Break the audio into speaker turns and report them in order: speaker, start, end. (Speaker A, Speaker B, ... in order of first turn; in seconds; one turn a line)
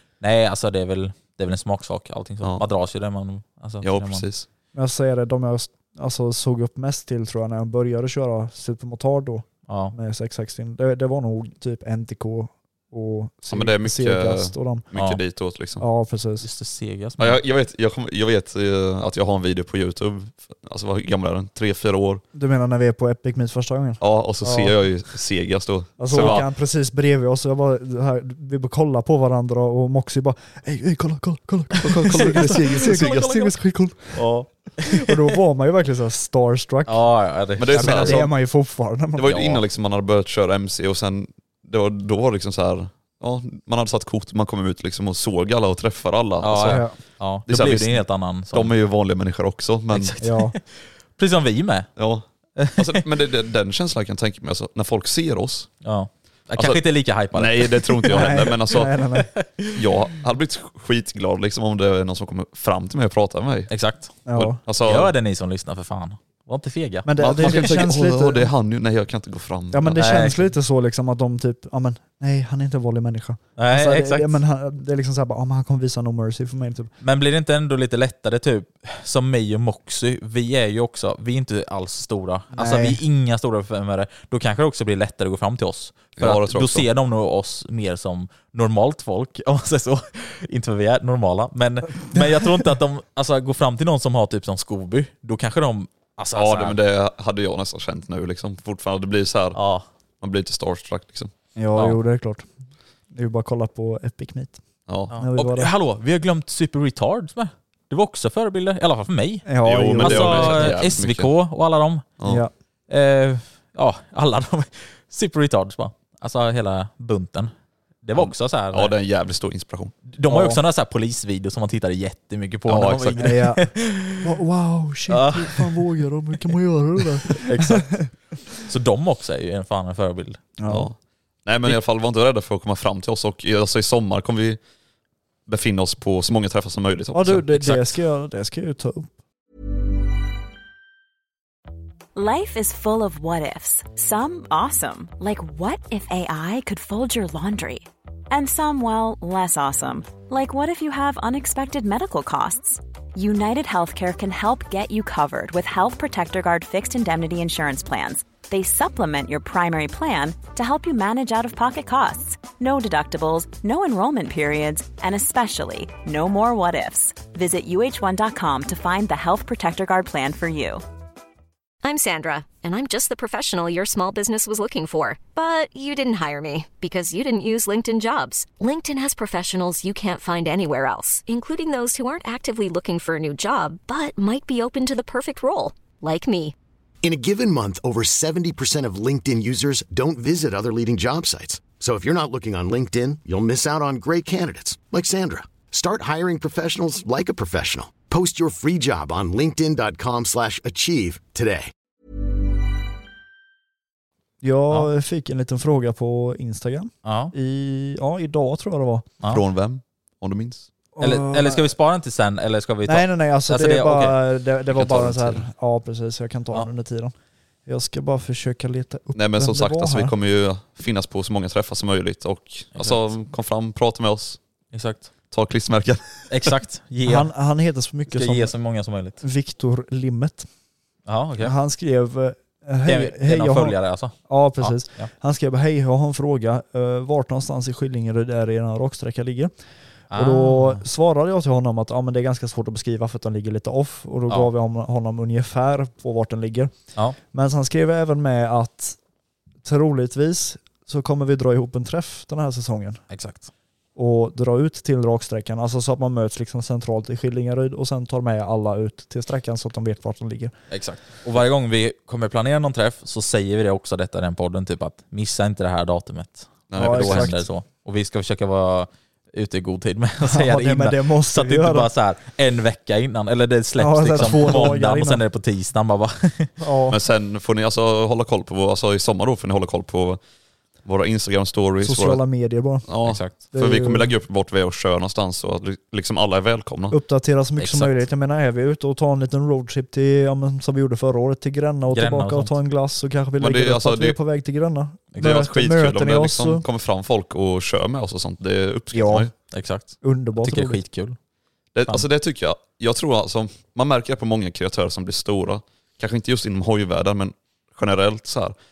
Speaker A: 0.2-4.3
Speaker B: 3.8-4.5
Speaker C: 4.8-14.8
Speaker A: 9.7-9.9
Speaker B: 13.5-15.8
Speaker A: 14.9-15.2
Speaker C: 15.8-16.5
Speaker A: 16.4-17.4
Speaker B: 17.2-22.2
Speaker C: 22.3-24.7
Speaker B: 24.0-26.4
Speaker C: 26.0-34.2
Speaker A: 26.1-26.4
Speaker B: 31.8-33.5
Speaker A: 32.1-33.5
Speaker A: 34.1-35.3
Speaker C: 34.9-37.0
Speaker A: 36.9-38.3
Speaker B: 37.6-38.3
Speaker C: 37.7-39.3
Speaker B: 39.2-46.8
Speaker A: 39.3-39.6
Speaker A: 46.4-48.7
Speaker C: 46.7-47.0
Speaker B: 47.5-50.1
Speaker A: 49.9-51.9
Speaker C: 50.2-50.5
Speaker B: 52.0-55.7
Speaker A: 52.6-53.0
Speaker A: 55.8-58.5
Speaker B: 56.5-59.0
Speaker C: 58.1-59.3
Speaker A: 59.2-59.9
Speaker B: 59.8-63.7
Speaker A: 63.7-64.2
Speaker C: 64.3-64.6
Speaker B: 64.3-65.1
Speaker A: 64.8-67.7
Speaker C: 67.1-68.5
Speaker B: 67.2-70.2
Speaker C: 69.7-76.9
Speaker A: 70.0-70.5
Speaker A: 73.6-74.4
Speaker A: 77.0-96.8
Speaker C: 82.5-83.0
Speaker B: 86.2-86.9
Speaker C: 92.0-92.4
Speaker B: 96.3-99.6
Speaker A: 99.6-99.8
Speaker B: 100.2-101.3
Speaker C: 101.6-102.5
Speaker C: 103.1-104.6
Speaker B: 104.9-105.1
Speaker A: 105.1-112.1
Speaker C: 105.1-105.7
Speaker C: 109.5-110.8
Speaker B: 109.6-111.3
Speaker B: 112.2-112.4
Speaker C: 112.2-112.5
Speaker A: 112.9-117.5
Speaker A: 118.0-118.9
Speaker B: 118.2-120.0
Speaker A: 120.1-124.3
Speaker C: 120.3-120.6
Speaker B: 122.7-123.4
Speaker C: 123.2-123.7
Speaker C: 124.2-128.1
Speaker A: 125.1-125.9
Speaker A: 127.3-128.1
Speaker A: 128.6-130.4
Speaker C: 130.6-130.9
Speaker B: 130.7-134.6
Speaker B: 135.5-137.5
Speaker C: 137.1-139.1
Speaker A: 137.6-137.9
Speaker D: 142.2-170.8
Speaker E: 171.8-186.6
Speaker F: 187.0-201.7
Speaker C: 204.4-209.1
Speaker A: 207.0-207.3
Speaker B: 209.3-210.7
Speaker C: 211.0-211.7
Speaker A: 211.0-214.2
Speaker C: 212.9-217.1
Speaker B: 214.7-215.4
Speaker C: 217.7-220.1
Speaker B: 219.1-224.4
Speaker A: 222.8-223.0
Speaker A: 224.7-225.1
Speaker B: 225.3-226.5
Speaker A: 226.3-227.3
Speaker C: 227.1-228.5
Speaker A: 228.1-229.2
Speaker C: 229.2-230.5
Speaker A: 231.1-231.5
Speaker C: 231.4-233.8
Speaker A: 232.9-235.1
Speaker C: 234.3-239.5
Speaker A: 240.1-240.8
Speaker C: 240.2-246.7
Speaker C: 247.3-249.0
Speaker C: 249.6-253.0
Speaker A: 253.1-253.5
Speaker C: 254.0-260.5
Speaker A: 260.7-276.5
Speaker B: 266.7-267.4
Speaker C: 266.8-267.5
Speaker C: 270.2-271.9
Speaker C: 273.8-275.2
Speaker C: 276.6-277.0
Speaker B: 276.9-280.2
Speaker B: 280.8-282.2
Speaker C: 281.8-282.9
Speaker B: 282.9-287.0
Speaker A: 283.1-283.4
Speaker C: 283.4-284.1
Speaker C: 286.9-296.6
Speaker A: 287.6-288.1
Speaker A: 291.9-292.5
Speaker B: 293.4-294.2
Speaker B: 295.2-299.3
Speaker C: 298.9-299.3
Speaker A: 299.5-301.2
Speaker C: 300.0-300.8
Speaker B: 301.7-308.6